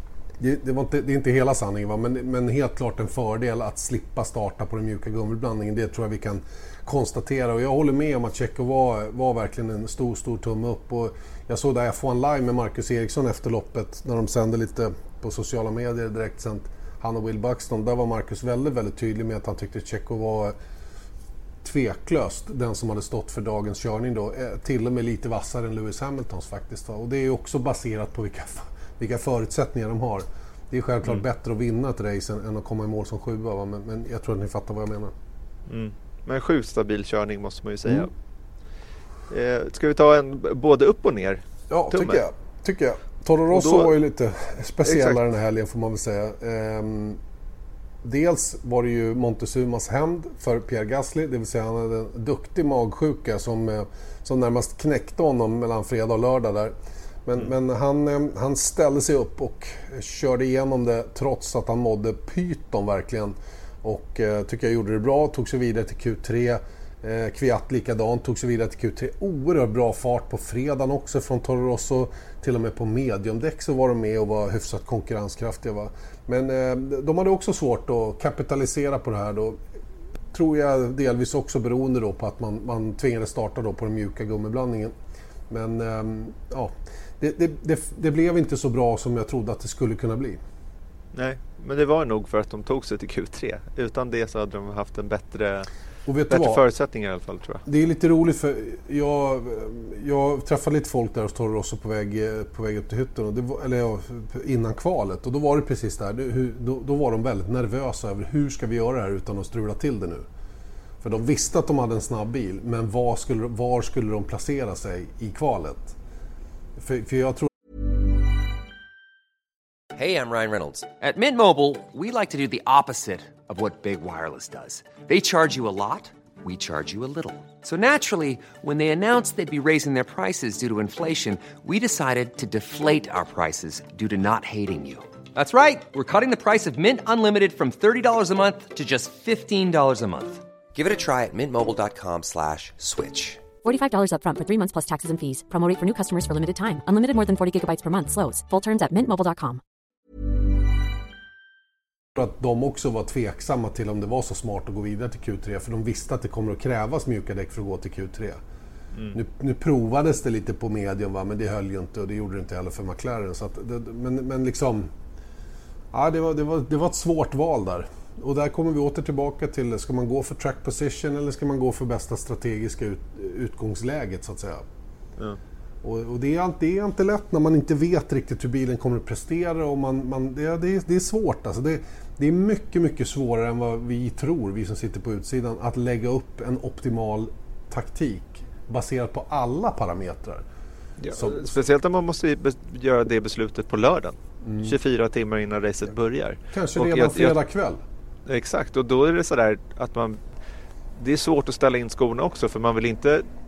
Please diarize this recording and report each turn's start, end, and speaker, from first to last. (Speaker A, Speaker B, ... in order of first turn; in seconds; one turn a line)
Speaker A: 0.4-20.6
Speaker A: 21.6-35.1
Speaker B: 35.7-38.1
Speaker B: 39.3-42.2
Speaker A: 41.7-47.2
Speaker B: 43.5-44.0
Speaker B: 44.8-45.2
Speaker A: 48.0-56.7
Speaker A: 57.3-79.6
Speaker A: 80.3-84.9
Speaker A: 85.5-90.4
Speaker B: 91.1-95.7
Speaker A: 96.1-96.6
Speaker B: 96.3-97.6
Speaker A: 97.7-110.2
Speaker A: 111.0-116.0
Speaker A: 116.8-117.5
Speaker C: 119.9-143.4
Speaker D: 143.6-149.6
Speaker A: 152.2-158.4
Speaker A: 159.1-164.9
Speaker A: 165.9-174.6
Speaker A: 175.8-190.5
Speaker B: 191.0-197.4
Speaker A: 191.1-191.6
Speaker A: 194.4-194.8
Speaker A: 196.5-197.8
Speaker B: 198.3-200.2
Speaker B: 201.0-203.2